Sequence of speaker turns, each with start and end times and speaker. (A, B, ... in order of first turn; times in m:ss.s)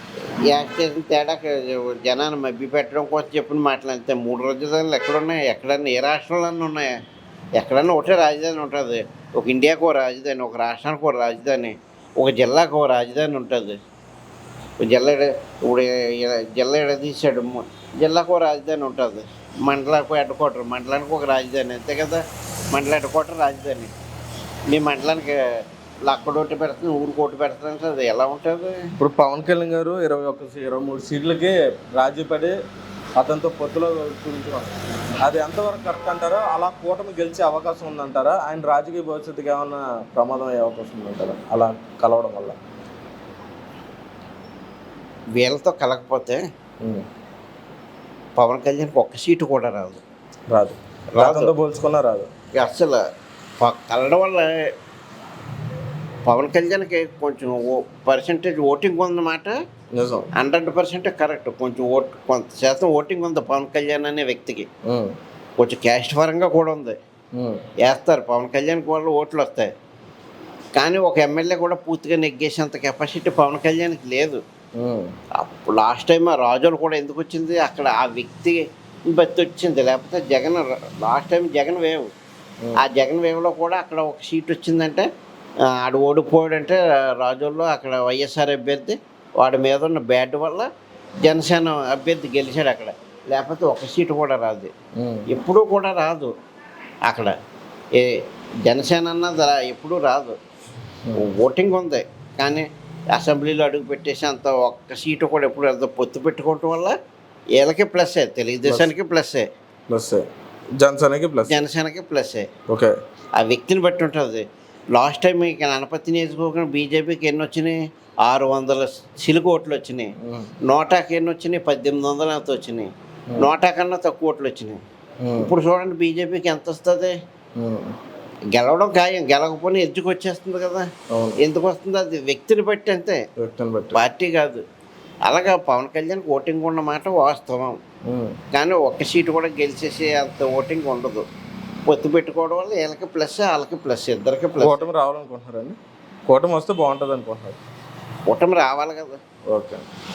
0:00.4-0:06.9 A
0:07.6-0:13.8 A
0:14.8-0:23.9 A
0:24.7-0:28.8 A
0:29.0-0:32.6 B
0:33.2-0:42.6 B
0:45.4-0:46.4 A
0:46.8-0:47.0 B
0:48.4-0:50.0 A
0:50.5-0:52.3 B
0:51.1-0:51.5 A
0:52.5-0:53.0 A
0:53.6-0:54.7 A
0:56.2-0:59.6 A
0:59.9-1:00.3 B
1:00.4-1:04.7 A
1:04.8-1:05.2 B
1:05.6-1:07.0 A
1:07.3-1:07.6 B
1:07.8-1:09.7 A
1:10.8-1:14.4 A
1:14.8-1:15.1 B
1:15.4-1:22.1 A
1:22.8-1:25.1 A
1:25.7-1:30.7 A
1:31.2-1:34.7 A
1:35.0-1:35.2 B
1:35.3-1:36.3 A
1:37.1-1:37.4 A
1:37.9-1:40.4 A
1:41.2-1:46.9 A
1:47.6-1:49.5 A
1:49.9-1:50.3 B
1:50.8-1:51.6 B
1:51.5-1:52.5 A
1:52.7-1:52.9 B
1:53.4-2:00.1 A
2:00.2-2:00.5 B
2:00.6-2:04.8 A
2:05.2-2:05.5 B
2:05.4-2:07.1 A
2:07.6-2:08.0 B
2:08.5-2:13.2 A
2:11.1-2:11.4 B
2:13.4-2:14.0 B
2:13.9-2:14.6 A
2:15.2-2:17.8 A
2:18.0-2:18.4 B
2:18.5-2:21.2 A
2:21.9-2:24.8 A
2:24.6-2:25.8 B
2:26.3-2:27.6 B
2:28.3-2:29.2 A
2:29.5-2:29.8 B